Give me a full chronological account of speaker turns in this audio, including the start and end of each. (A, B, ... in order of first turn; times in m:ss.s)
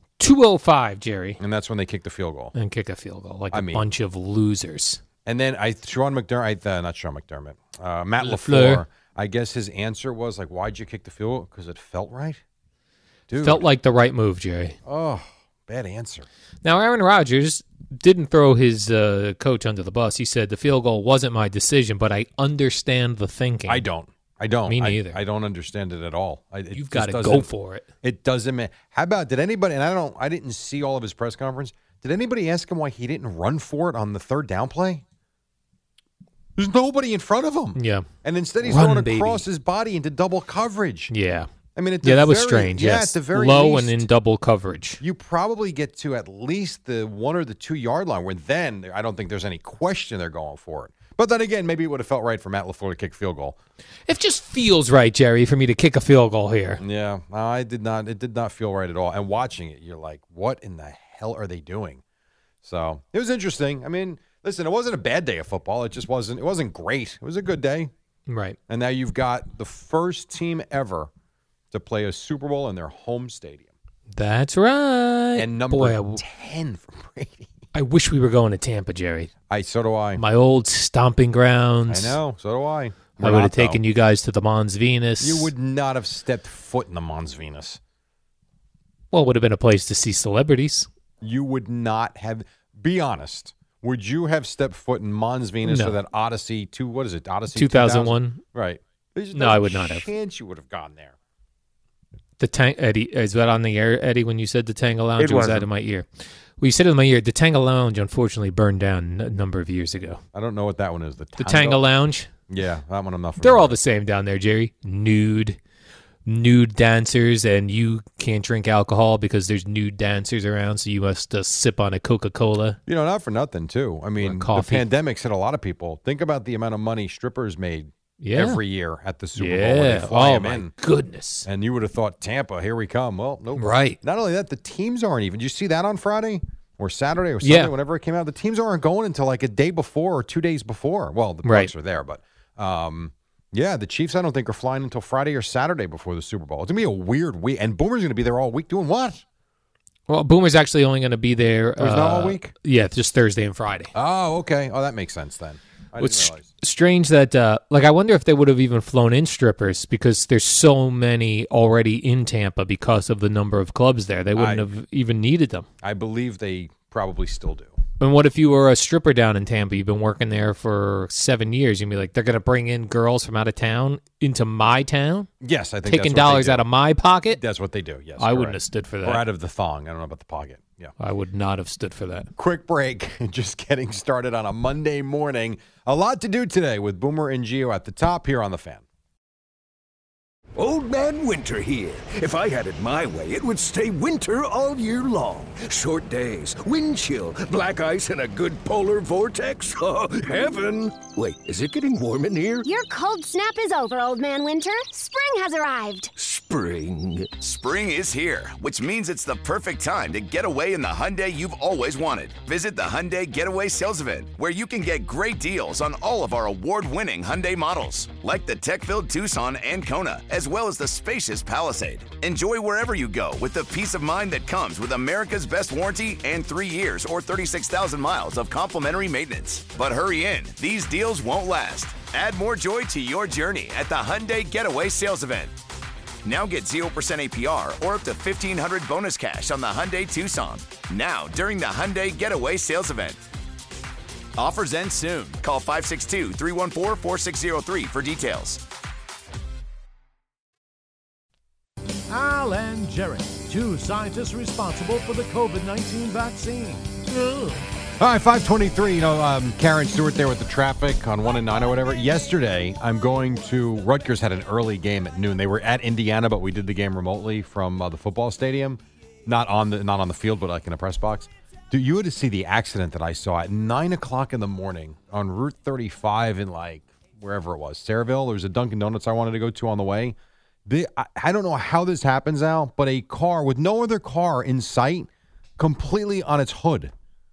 0:00.2-0:01.4 A
0:01.4-0:02.5 B
0:02.5-0:05.0 A
0:03.5-0:03.8 B
0:05.2-0:12.4 B
0:08.2-0:08.8 A
0:13.3-0:13.6 B
0:13.4-0:14.8 A
0:14.8-0:16.3 B
0:16.6-0:23.8 A
0:23.7-0:27.5 B
0:24.7-0:25.2 A
0:26.7-0:27.9 A
0:28.0-0:35.0 B
0:36.6-0:41.1 B
0:37.7-0:38.1 A
0:38.6-0:39.4 A
0:41.1-0:41.5 A
0:41.8-0:44.1 B
0:42.0-0:45.0 A
0:45.0-0:53.6 B
0:54.1-0:56.8 A
0:56.8-1:02.0 B
1:02.6-1:07.9 B
1:08.3-1:08.6 A
1:08.7-1:11.1 B
1:11.7-1:13.7 B
1:14.1-1:16.2 A
1:15.4-1:17.5 B
1:17.7-1:19.3 A
1:19.5-1:20.2 B
1:20.2-1:22.2 A
1:21.9-1:23.8 B
1:23.2-1:25.5 A
1:25.2-1:27.8 B
1:29.1-1:30.9 A
1:31.2-1:41.2 B
1:35.6-1:36.0 A
1:37.5-1:38.4 A
1:39.3-1:40.1 A
1:42.4-1:46.1 A
1:45.2-1:45.7 B
1:46.6-1:50.2 A
1:50.3-1:51.8 B
1:51.4-1:52.3 A
1:52.5-1:53.8 B
1:53.4-1:55.6 A
1:56.2-2:02.8 A
2:02.9-2:10.7 B
2:04.2-2:04.9 A
2:08.2-2:08.6 A
2:09.4-2:11.5 A
2:11.4-2:29.2 B
2:13.6-2:14.0 A
2:17.4-2:17.7 A
2:21.4-2:21.7 A
2:30.1-2:33.9 A
2:31.8-2:32.5 B
2:33.9-2:36.5 B
2:36.0-2:45.7 A
2:44.3-2:44.7 B
2:45.8-2:47.8 B
2:48.0-2:55.3 A
2:55.4-2:56.7 B
2:55.8-2:57.4 A
2:57.3-3:00.9 B
2:58.2-2:59.2 A
3:01.0-3:02.3 A
3:02.4-3:08.8 B
3:10.6-3:22.7 C
3:22.6-3:26.1 D
3:26.2-3:27.4 C
3:27.4-3:55.5 E
3:56.2-4:03.2 E
4:04.4-4:08.6 E
4:12.1-4:16.9 F
4:17.1-4:17.6 A
4:18.0-4:46.9 B